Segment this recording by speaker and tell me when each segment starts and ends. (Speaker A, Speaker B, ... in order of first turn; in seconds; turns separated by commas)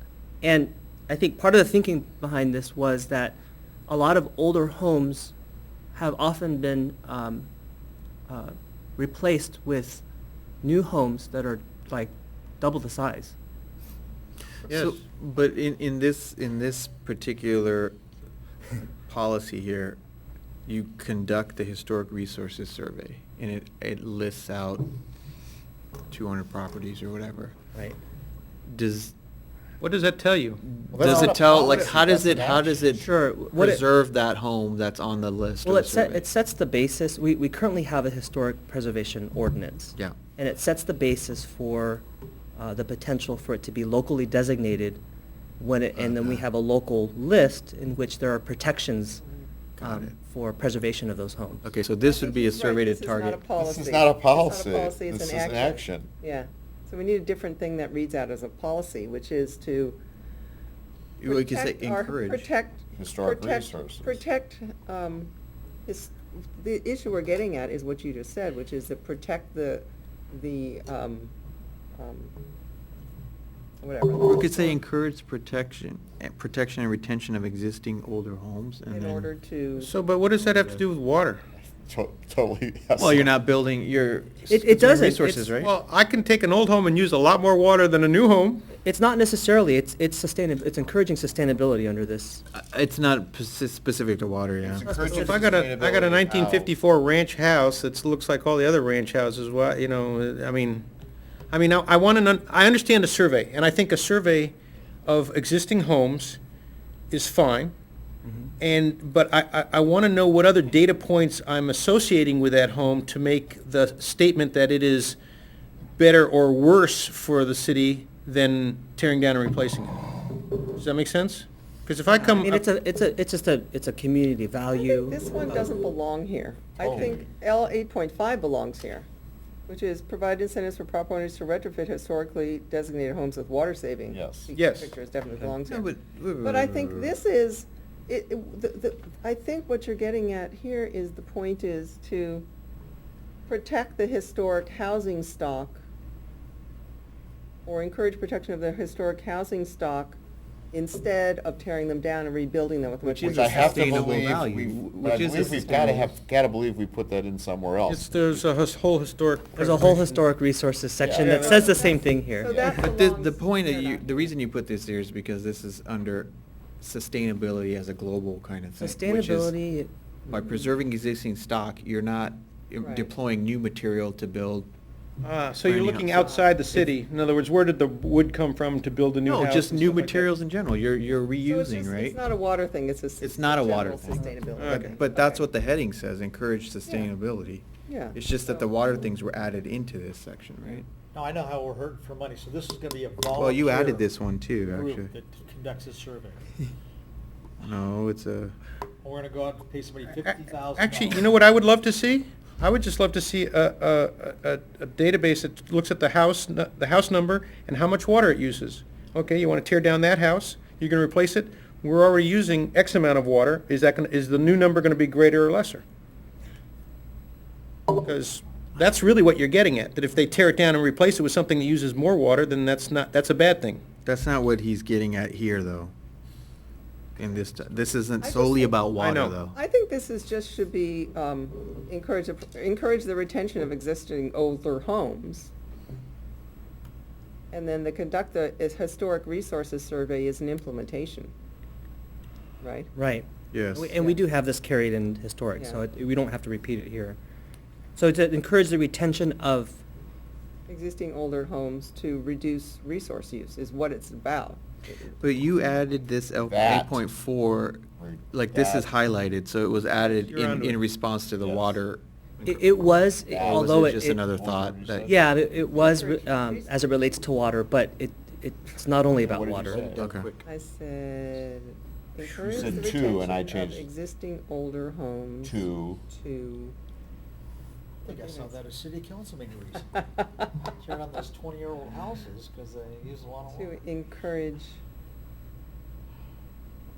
Speaker A: 0.4-3.4, Speaker A: 3.9-5.3, Speaker A: 5.9-7.5, Speaker A: 8.3-10.0, Speaker A: 10.6-13.3, Speaker B: 14.7-17.9, Speaker B: 19.1-20.0, Speaker B: 20.7-24.9, Speaker B: 26.1-27.5, Speaker B: 28.7-29.1, Speaker C: 29.8-30.6, Speaker B: 30.7-36.2, Speaker D: 30.9-33.0, Speaker A: 32.9-33.8, Speaker A: 35.6-42.0, Speaker A: 42.5-45.0, Speaker A: 45.6-49.2, Speaker B: 49.8-50.1, Speaker A: 49.8-51.6, Speaker B: 51.6-53.5, Speaker E: 52.0-60.0, Speaker D: 53.5-56.1, Speaker B: 61.2-62.5, Speaker E: 61.2-65.3, Speaker D: 62.9-64.2, Speaker E: 65.8-71.3, Speaker E: 72.0-72.3, Speaker E: 73.8-74.8, Speaker B: 74.2-79.3, Speaker E: 78.9-79.9, Speaker C: 79.8-81.4, Speaker D: 81.8-83.3, Speaker B: 83.0-85.7, Speaker A: 84.5-85.6, Speaker C: 85.6-88.6, Speaker A: 88.8-92.4, Speaker B: 92.5-94.9, Speaker D: 94.6-96.7, Speaker A: 94.8-95.4, Speaker C: 94.9-100.8, Speaker C: 101.5-104.5, Speaker C: 105.0-106.4, Speaker C: 107.1-107.7, Speaker A: 108.2-108.5, Speaker C: 108.6-115.2, Speaker C: 116.0-122.6, Speaker A: 122.1-125.7, Speaker E: 124.8-129.1, Speaker D: 126.8-127.2, Speaker E: 129.7-142.4, Speaker D: 134.1-134.4, Speaker C: 134.5-134.9, Speaker B: 135.3-137.2, Speaker E: 143.5-145.8, Speaker E: 147.6-150.2, Speaker E: 150.7-154.2, Speaker B: 153.0-156.1, Speaker D: 153.2-158.5, Speaker E: 155.6-155.9, Speaker C: 157.9-160.2, Speaker A: 159.6-162.7, Speaker D: 161.0-161.3, Speaker C: 161.1-161.9, Speaker E: 161.2-164.3, Speaker B: 162.6-169.5, Speaker A: 168.8-170.4, Speaker B: 170.3-174.7, Speaker E: 172.8-173.1, Speaker C: 175.2-180.3, Speaker B: 175.6-176.3, Speaker E: 176.2-176.5, Speaker B: 179.2-182.2, Speaker E: 181.3-185.5, Speaker B: 183.2-190.9, Speaker C: 184.6-185.0, Speaker E: 186.8-187.1, Speaker E: 187.9-188.7, Speaker F: 191.1-196.4, Speaker B: 193.3-195.1, Speaker B: 197.6-198.5, Speaker F: 199.0-201.3, Speaker C: 200.2-215.8, Speaker C: 217.9-223.8, Speaker B: 224.0-225.9, Speaker B: 227.2-229.6, Speaker E: 228.2-228.8, Speaker C: 228.9-229.4, Speaker E: 229.5-235.5, Speaker E: 237.5-241.3, Speaker E: 242.6-242.9, Speaker A: 242.9-247.2, Speaker B: 243.5-243.9, Speaker E: 245.6-245.8, Speaker A: 247.9-249.8, Speaker E: 250.7-255.0, Speaker B: 255.1-262.6, Speaker D: 256.4-257.0, Speaker D: 258.0-258.9, Speaker C: 260.0-260.8, Speaker D: 261.4-261.7, Speaker A: 262.4-264.2, Speaker D: 263.3-265.2, Speaker B: 263.3-265.1, Speaker A: 265.1-269.9, Speaker E: 265.7-266.9, Speaker D: 269.2-270.2, Speaker B: 269.7-270.4, Speaker E: 270.4-276.7, Speaker D: 272.2-273.9, Speaker D: 275.4-276.0, Speaker E: 278.0-278.5, Speaker F: 278.0-280.0, Speaker F: 280.6-283.7, Speaker E: 283.5-284.8